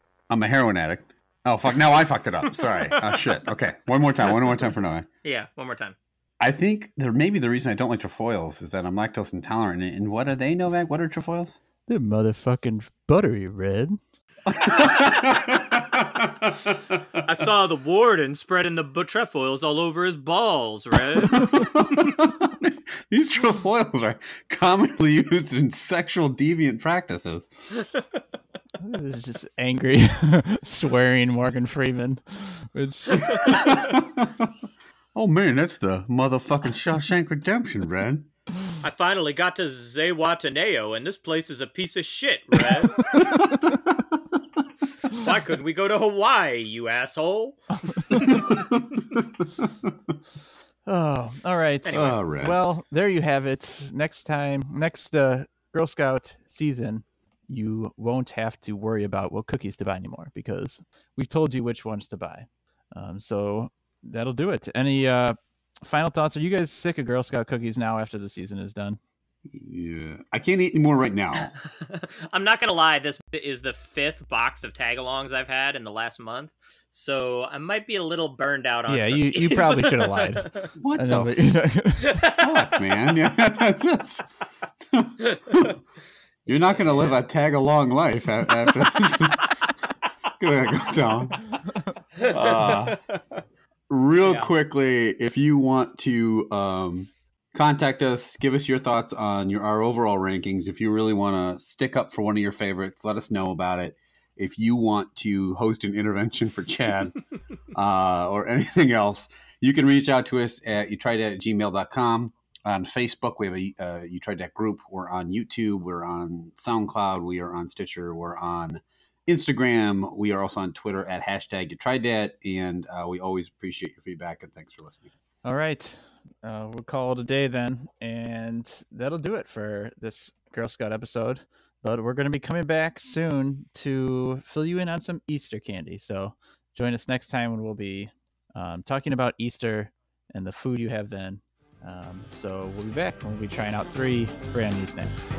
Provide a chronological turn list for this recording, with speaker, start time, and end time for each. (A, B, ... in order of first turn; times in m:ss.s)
0:00.3-0:05.1 A
0:02.4-0:03.4 B
0:05.2-0:06.0 B
0:06.4-0:11.6 A
0:11.9-0:14.0 C
0:14.4-0:17.2 A
0:14.8-0:15.1 B
0:17.2-0:22.1 B
0:21.2-0:27.5 A
0:27.8-0:28.2 B
0:28.8-0:33.7 C
0:33.2-0:33.8 B
0:33.4-0:34.5 A
0:35.1-0:38.3 A
0:38.8-0:43.2 B
0:43.1-0:44.6 A
0:45.1-0:48.4 B
0:48.1-0:48.4 C
0:48.1-0:49.9 A
0:50.9-1:09.0 C
0:51.9-0:52.2 B
0:51.9-0:52.6 A
1:09.4-1:11.5 A
1:11.6-1:20.7 B
1:18.9-1:22.2 C
1:20.8-1:21.4 A
1:22.0-1:22.9 B
1:22.3-1:24.2 A
1:24.9-1:25.8 A
1:25.2-1:25.7 B
1:26.5-1:29.5 A
1:26.5-1:27.2 B
1:30.4-1:31.5 A
1:32.2-1:33.2 B
1:32.2-1:33.0 A
1:33.9-1:47.2 A
1:34.2-1:34.5 B
1:47.7-2:05.1 A
2:05.4-2:25.3 C